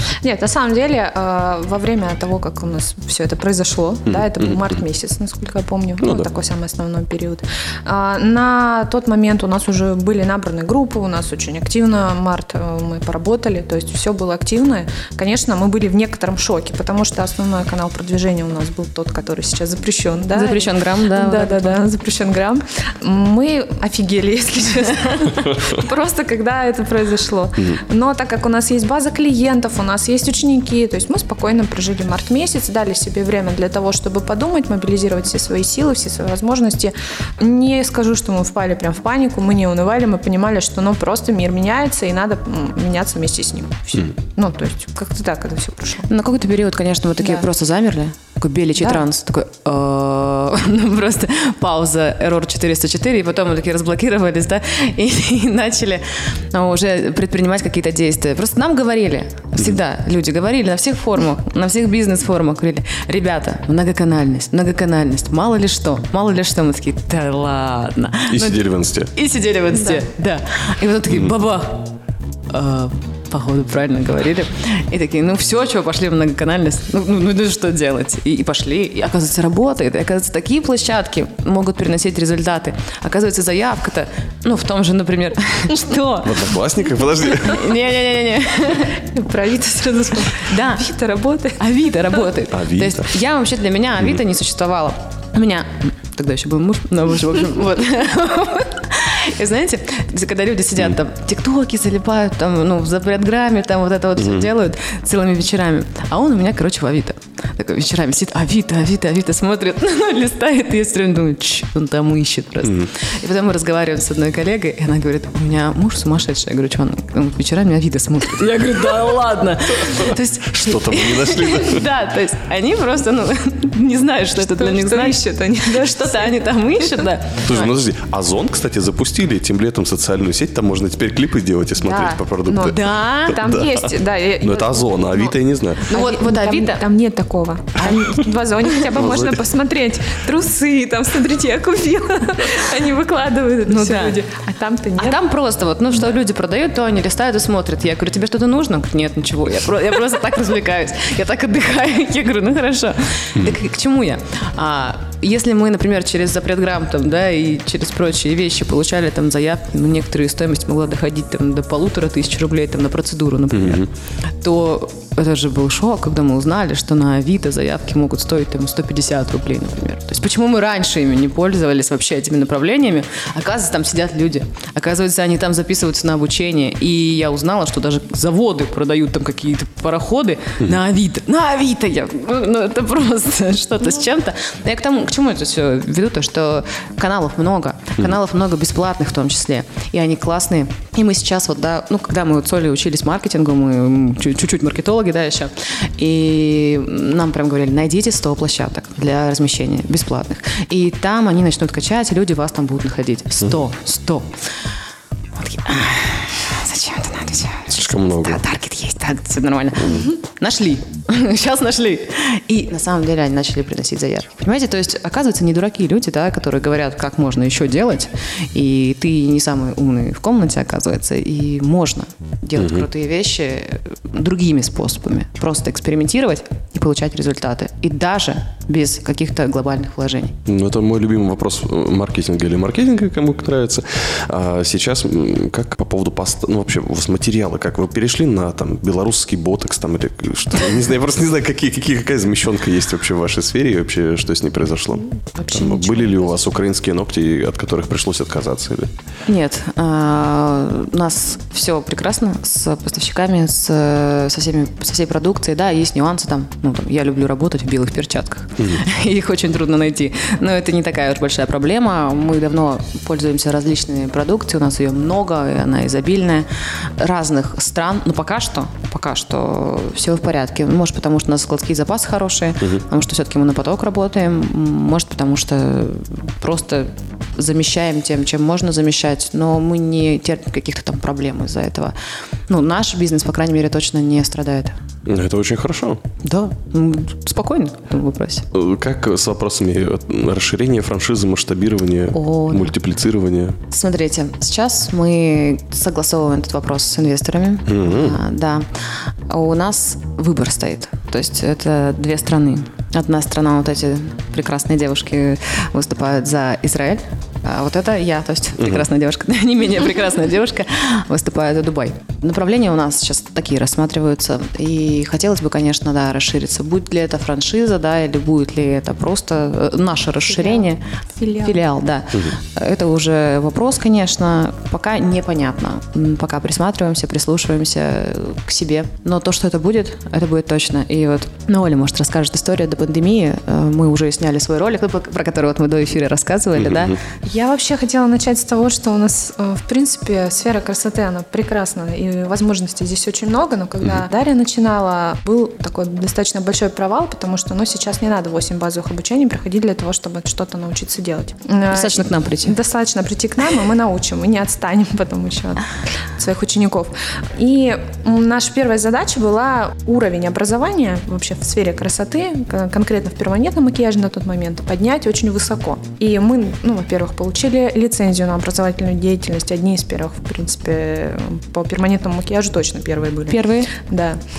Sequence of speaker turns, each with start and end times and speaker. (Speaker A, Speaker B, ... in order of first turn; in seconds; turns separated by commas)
Speaker A: 0.2-46.1, Speaker B: 4.1-4.8, Speaker B: 6.0-6.3, Speaker C: 20.3-21.8, Speaker C: 46.1-71.9, Speaker A: 47.2-47.5, Speaker A: 48.8-49.0, Speaker B: 68.3-69.1, Speaker C: 72.5-86.4, Speaker B: 86.2-87.7, Speaker C: 87.4-89.0, Speaker A: 88.9-91.6, Speaker C: 90.4-90.8, Speaker C: 91.6-127.7, Speaker B: 92.5-93.1, Speaker B: 104.2-104.5, Speaker B: 112.6-112.9, Speaker B: 119.9-121.8, Speaker A: 124.5-127.1, Speaker B: 127.4-132.8, Speaker A: 131.8-135.3, Speaker C: 132.7-133.4, Speaker B: 133.3-133.9, Speaker B: 134.4-135.9, Speaker A: 135.9-145.2, Speaker C: 135.9-136.8, Speaker B: 138.9-139.4, Speaker C: 143.7-144.2, Speaker C: 145.0-163.9, Speaker B: 163.5-163.9, Speaker C: 164.4-204.3, Speaker C: 205.4-230.4, Speaker B: 207.7-208.4, Speaker B: 222.6-222.9, Speaker B: 230.5-248.9, Speaker C: 245.4-246.4, Speaker C: 249.3-266.5, Speaker C: 267.0-281.9, Speaker C: 282.5-284.8, Speaker B: 285.1-286.0, Speaker C: 286.2-288.5, Speaker B: 288.5-293.6, Speaker C: 292.1-292.7, Speaker C: 293.7-298.7, Speaker B: 297.7-298.2, Speaker C: 299.3-320.8, Speaker B: 308.6-308.8, Speaker A: 320.3-321.6, Speaker C: 321.4-337.0, Speaker B: 336.6-337.0, Speaker A: 337.2-374.2, Speaker C: 351.7-352.6, Speaker C: 373.3-373.7